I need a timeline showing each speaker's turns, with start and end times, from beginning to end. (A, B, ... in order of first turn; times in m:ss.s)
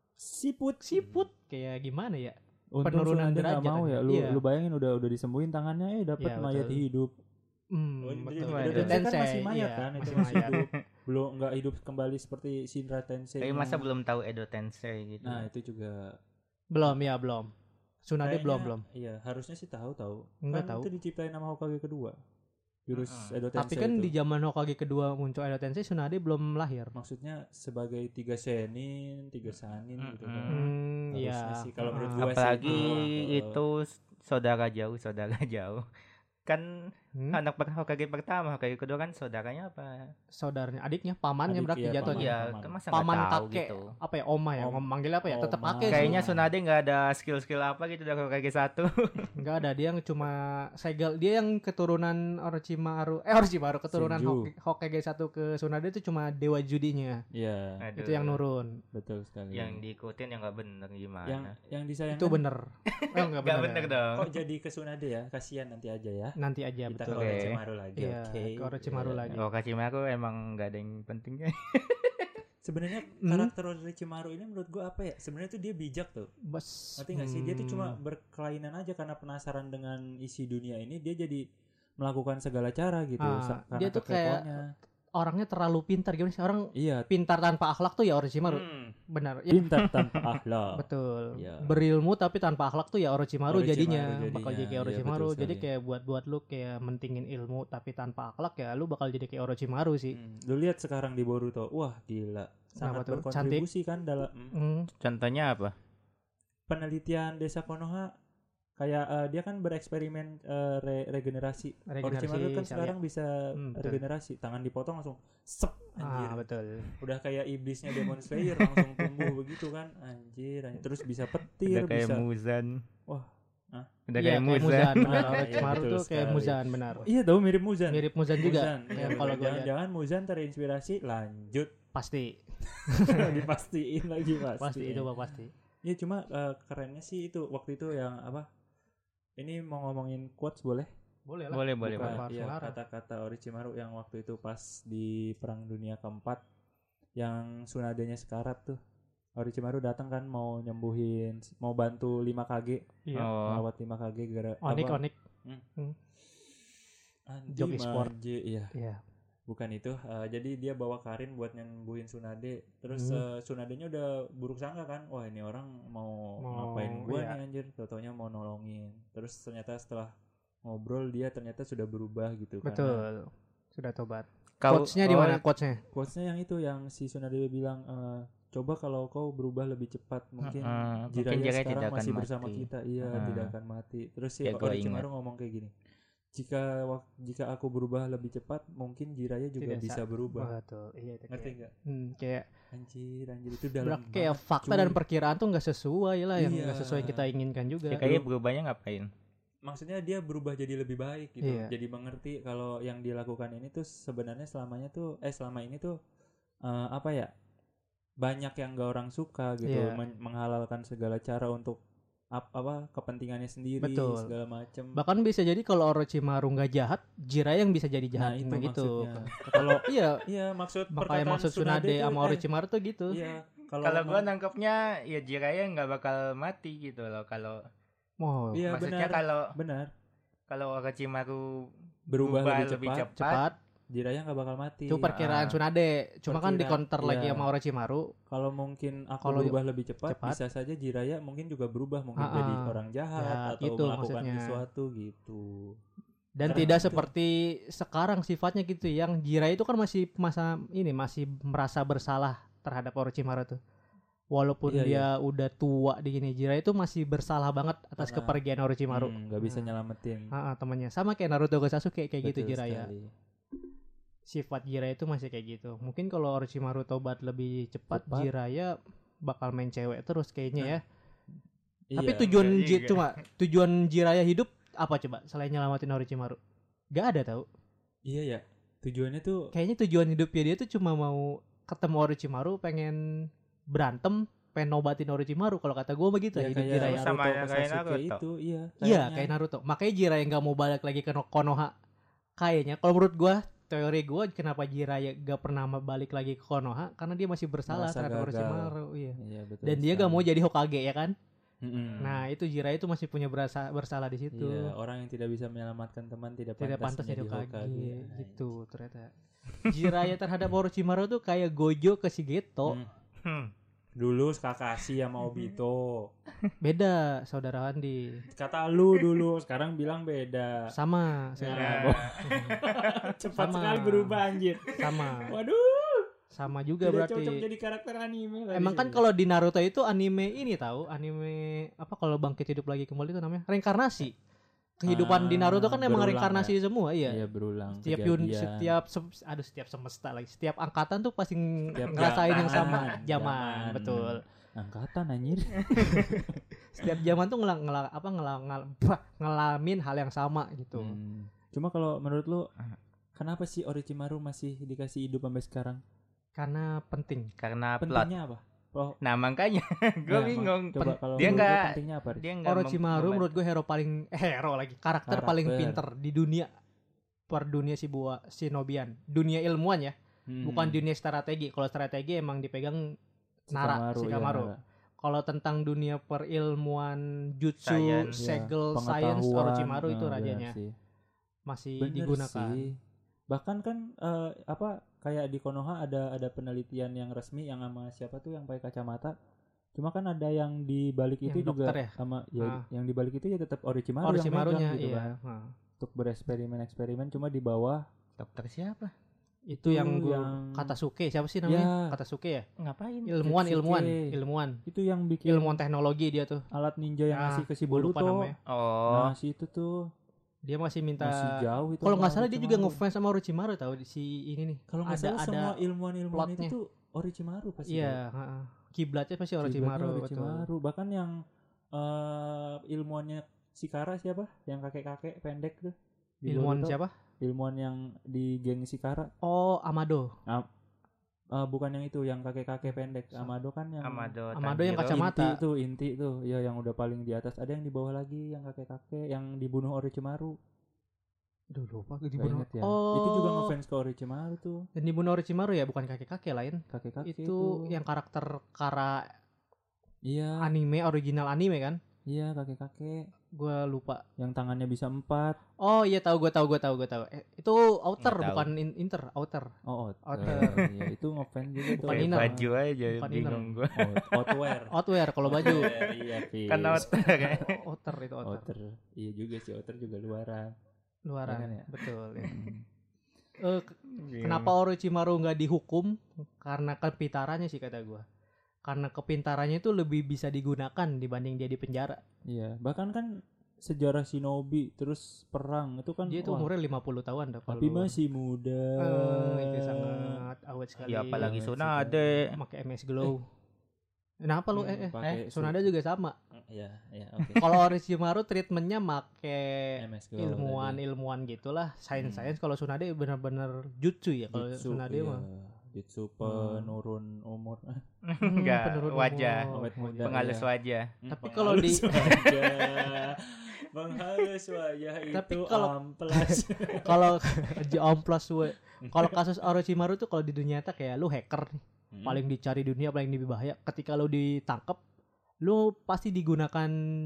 0:00.2-0:01.2 A
0:00.8-0:04.4 B
0:02.8-0:07.1 A
0:06.2-0:06.8 B
0:07.7-0:10.6 B
0:08.0-0:13.8 A
0:08.4-0:09.0 C
0:10.1-0:10.8 C
0:13.4-0:15.5 C
0:15.2-0:16.2 A
0:16.7-0:17.5 B
0:18.1-0:18.8 B
0:18.2-0:22.2 A
0:20.4-0:20.9 B
0:22.9-0:24.1 A
0:22.9-0:23.4 C
0:23.6-0:26.9 B
0:27.0-0:33.6 A
0:30.0-0:30.7 C
0:30.5-0:32.9 B
0:31.8-0:35.8 C
0:37.3-0:40.1 C
0:40.4-0:42.3 B
0:41.5-0:42.8 A
0:42.1-0:43.9 C
0:42.9-0:46.2 B
0:44.6-0:46.5 A
0:45.9-0:49.3 C
0:49.4-0:57.2 B
0:53.9-0:54.5 A
0:57.3-0:57.8 A
0:57.8-0:58.4 C
0:58.0-0:58.8 B
0:58.9-0:59.8 A
0:59.5-1:01.5 C
1:01.3-1:02.4 A
1:02.1-1:04.0 B
1:02.9-1:04.3 C
1:04.2-1:06.4 A
1:06.4-1:09.4 B
1:06.9-1:09.4 A
1:07.1-1:07.6 C
1:09.4-1:12.3 C
1:12.6-1:16.3 A
1:13.2-1:13.5 B
1:16.5-1:18.0 B
1:17.0-1:21.4 A
1:22.0-1:24.6 A
1:23.2-1:24.5 B
1:25.2-1:30.0 B
1:26.8-1:27.1 A
1:29.5-1:30.8 A
1:30.8-1:40.2 B
1:31.4-1:31.8 A
1:33.5-1:35.7 A
1:40.1-1:44.6 A
1:42.8-1:43.6 B
1:44.5-1:44.9 B
1:45.0-1:45.8 C
1:46.7-1:48.1 A
1:48.8-1:56.4 A
1:51.9-1:53.0 B
1:53.6-1:54.0 B
1:56.0-1:56.9 B
1:57.0-2:02.2 A
2:01.7-2:02.8 C
2:03.1-2:03.9 A
2:04.1-2:05.5 C
2:04.2-2:07.1 B
2:05.0-2:11.7 A
2:07.9-2:09.7 B
2:12.0-2:13.4 B
2:12.6-2:15.1 A
2:14.6-2:15.5 B
2:15.8-2:18.5 A
2:19.4-2:20.9 A
2:21.3-2:22.8 B
2:21.5-2:22.2 C
2:21.8-2:26.4 A
2:27.2-2:28.8 A
2:29.4-2:35.6 A
2:33.1-2:33.3 B
2:33.2-2:33.6 C
2:34.6-2:35.2 B
2:37.3-2:38.7 A
2:37.5-2:38.1 B
2:38.7-2:39.0 B
2:39.5-2:50.1 A
2:42.9-2:43.2 B
2:46.4-2:47.4 B
2:50.6-2:53.0 A
2:52.6-2:55.8 B
2:54.6-2:55.4 C
2:55.9-3:05.7 A
3:00.4-3:03.5 C
3:04.4-3:05.0 C
3:06.4-3:10.5 A
3:09.6-3:12.5 B
3:11.3-3:11.7 A
3:12.7-3:15.0 A
3:13.8-3:18.2 B
3:16.4-3:17.3 A
3:17.9-3:19.1 C
3:19.6-3:26.0 A
3:21.4-3:21.7 B
3:26.7-3:27.3 A
3:28.2-3:31.8 A
3:29.7-3:30.0 B
3:32.4-3:35.0 A
3:33.8-3:34.3 B
3:35.0-3:40.2 B
3:38.2-3:42.4 A
3:40.9-3:43.2 B
3:43.1-3:44.3 A
3:43.8-3:47.6 C
3:48.2-3:48.7 B
3:48.5-3:49.9 A
3:48.7-3:49.5 C
3:50.5-3:53.4 C
3:52.1-3:53.1 A
3:53.2-3:53.6 B
3:53.9-3:55.2 A
3:54.9-3:58.1 B
3:55.1-3:55.6 C
3:56.3-3:57.5 A
3:58.3-4:05.8 A
3:59.2-4:00.4 B
4:02.2-4:04.6 B
4:06.4-4:13.6 B
4:06.4-4:07.1 A
4:14.3-4:19.7 B
4:14.7-4:15.1 A
4:18.0-4:18.4 A
4:18.9-4:20.3 A
4:20.3-4:22.9 B
4:22.2-4:23.1 A
4:24.3-4:30.8 B
4:27.9-4:28.3 A
4:31.9-4:32.4 A
4:32.0-4:36.4 B
4:32.3-4:33.1 C
4:36.9-4:37.5 B
4:38.1-4:39.5 A
4:39.5-4:43.0 B
4:43.7-4:47.1 B
4:46.4-4:49.3 A
4:46.8-4:48.2 C
4:48.8-4:51.7 B
4:52.4-5:01.1 B
4:57.7-5:00.2 A
5:01.6-5:02.3 A
5:02.0-5:04.7 B
5:04.3-5:08.5 A
5:06.6-5:12.8 B
5:13.2-5:13.5 C
5:14.0-5:16.1 A
5:16.6-5:18.2 B
5:18.3-5:20.6 A
5:20.7-5:22.6 B
5:21.4-5:26.1 A
5:21.5-5:22.6 C
5:23.4-5:24.2 B
5:24.8-5:25.3 B
5:26.3-5:27.4 B
5:26.8-5:29.0 A
5:28.5-5:34.2 B
5:34.8-5:37.2 B
5:34.9-5:36.5 A
5:37.1-5:38.7 A
5:37.8-5:44.2 B
5:41.8-5:46.8 A
5:42.4-5:42.8 C
5:45.8-5:51.0 B
5:50.8-5:52.5 A
5:53.2-5:55.8 A
5:56.4-5:57.3 B
5:57.4-5:58.1 C
5:57.8-5:59.0 A
5:59.0-6:03.3 C
6:00.1-6:02.2 A
6:01.2-6:01.5 B
6:02.4-6:06.5 B
6:05.1-6:05.8 A
6:07.3-6:12.8 B
6:10.3-6:10.8 A
6:13.5-6:14.6 A
6:13.5-6:14.5 B
6:15.0-6:20.6 B
6:17.6-6:18.2 C
6:18.2-6:20.8 A
6:21.5-6:22.7 B
6:21.8-6:22.7 A
6:23.3-6:29.2 A
6:29.8-6:35.1 A
6:31.3-6:32.6 B
6:34.0-6:35.5 B
6:35.8-6:37.8 A
6:38.2-6:38.9 C
6:39.5-6:42.4 B
6:39.6-6:40.8 A
6:41.5-6:41.9 A
6:42.6-6:43.2 C
6:43.1-6:44.6 B
6:43.2-6:44.1 A
6:44.7-6:45.6 A
6:45.3-6:46.4 B
6:46.5-6:48.3 A
6:47.1-6:48.4 B
6:48.5-6:49.1 C
6:48.9-6:49.8 A
6:50.5-6:55.6 B
6:51.0-6:52.8 A
6:54.7-6:58.0 A
6:56.1-6:56.5 B
6:57.7-7:00.5 B
6:59.4-7:01.1 A
7:01.8-7:09.1 A
7:06.3-7:06.9 B
7:09.2-7:10.1 B
7:11.3-7:14.1 A
7:13.8-7:15.0 C
7:14.4-7:15.4 B
7:14.8-7:20.4 A
7:21.5-7:23.5 B
7:22.2-7:24.7 A
7:24.8-7:29.0 B
7:26.7-7:27.7 A
7:30.1-7:30.4 A
7:30.4-7:31.8 B
7:32.1-7:33.0 A
7:33.4-7:34.0 B
7:34.2-7:35.4 A
7:35.6-7:39.5 B
7:38.0-7:38.5 C
7:39.7-7:42.5 A
7:40.1-7:40.6 B
7:40.3-7:40.6 C
7:41.7-7:44.4 C
7:41.8-7:43.5 B
7:43.7-7:47.5 A
7:44.7-7:45.7 B
7:45.4-7:47.5 C
7:46.9-7:48.5 B
7:48.2-7:50.5 A
7:51.1-7:52.3 B
7:51.3-7:51.7 A
7:52.2-7:52.6 A
7:53.4-7:58.0 B
7:54.0-7:54.5 C
7:58.7-8:02.0 B
8:02.3-8:06.5 A
8:06.1-8:07.9 B
8:07.5-8:10.2 A
8:08.8-8:11.3 B
8:10.8-8:12.3 C
8:11.2-8:12.2 A
8:12.3-8:13.2 B
8:14.2-8:16.2 B
8:14.5-8:15.7 A
8:16.3-8:17.6 A
8:17.4-8:25.2 B
8:19.8-8:20.8 A
8:22.0-8:22.3 A
8:24.3-8:27.8 A
8:26.2-8:26.7 B
8:28.0-8:29.5 C
8:28.2-8:30.1 B
8:29.5-8:30.5 A
8:30.0-8:30.9 C
8:31.0-8:37.8 A
8:31.1-8:32.3 B
8:35.1-8:44.8 B
8:38.8-8:39.2 A
8:41.9-8:42.2 A
8:45.4-8:46.7 B